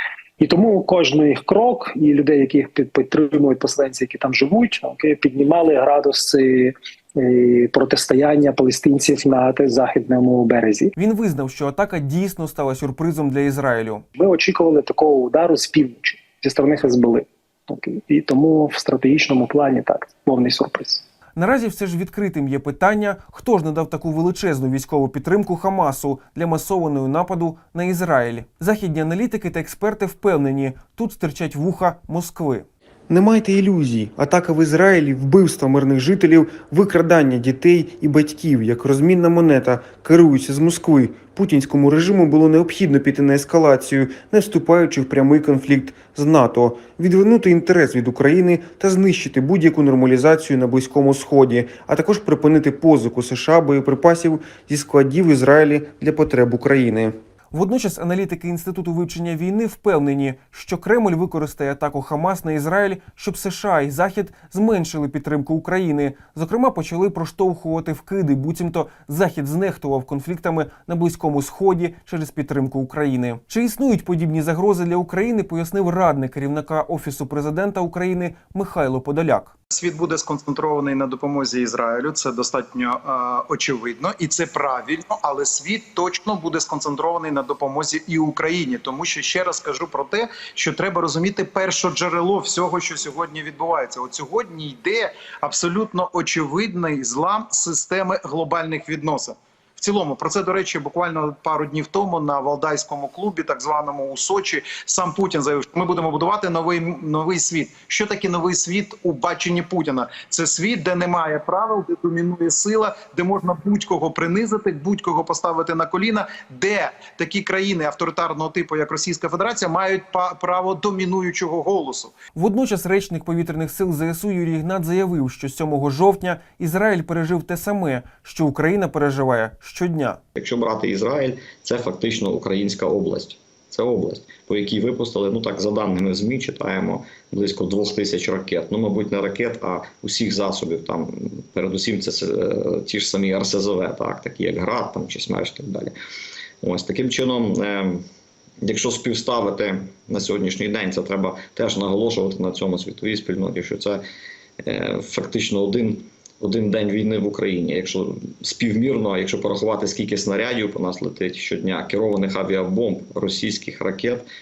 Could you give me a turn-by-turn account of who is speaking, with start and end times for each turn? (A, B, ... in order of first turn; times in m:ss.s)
0:00.4-0:10.9 A
0:11.0-0:14.0 B
0:14.2-0:21.0 A
0:21.4-1:19.5 B
1:19.7-2:02.1 C
2:02.3-2:10.2 B
2:10.4-2:25.9 D
2:26.6-2:28.0 D
2:28.6-2:34.0 D
2:34.6-2:44.2 D